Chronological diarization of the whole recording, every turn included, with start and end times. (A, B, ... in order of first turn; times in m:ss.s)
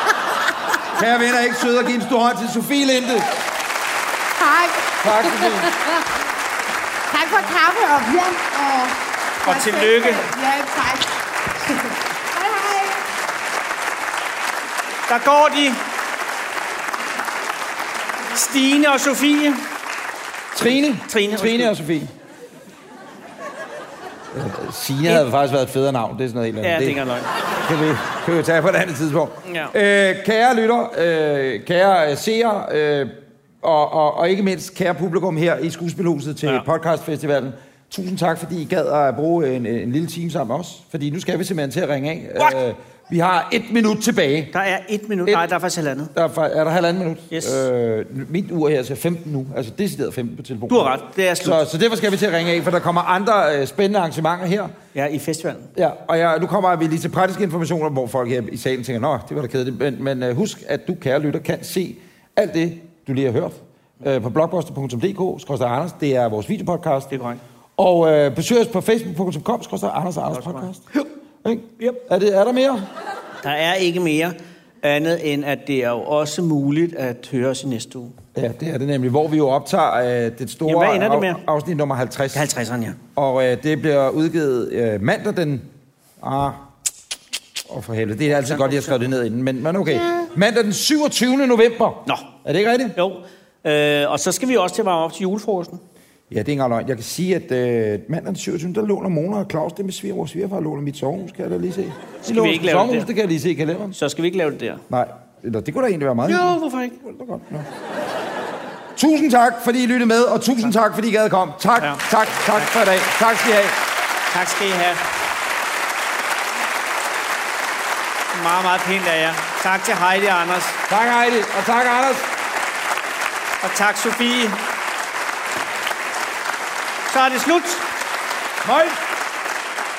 0:00.9-0:03.3 A
0:04.4-0:06.1 B
0:05.0-0:05.8 A
0:07.1-0:13.0 B
0:09.4-0:10.2 C
0:15.1-0:15.8 C
0:18.3-0:19.6 C
0:20.5-0:22.1 A
0:21.0-0:21.7 C
0:24.3-0:27.0 A
0:26.6-0:27.3 C
0:27.6-0:44.5 A
0:29.4-0:29.7 C
0:44.5-0:46.1 C
0:46.1-0:54.7 A
0:47.3-0:47.6 C
0:50.7-0:51.6 C
0:54.9-0:55.7 C
0:55.8-1:07.1 A
1:07.1-1:07.4 C
1:07.8-1:10.8 A
1:10.3-1:10.6 C
1:11.4-1:12.9 A
1:13.4-1:18.1 C
1:18.3-1:22.4 A
1:20.6-1:21.4 C
1:22.3-1:23.0 C
1:23.1-1:25.7 A
1:26.2-1:26.6 A
1:27.7-1:33.0 A
1:28.4-1:29.0 C
1:32.9-1:35.8 C
1:36.3-1:44.0 A
1:42.2-1:43.1 C
1:43.9-1:44.8 C
1:44.9-1:47.7 A
1:46.2-1:47.0 C
1:49.0-1:53.8 A
1:54.3-1:55.0 C
1:58.3-2:00.8 C
2:00.9-2:02.3 A
2:03.6-2:04.6 C
2:07.1-2:07.9 C
2:08.6-2:08.9 A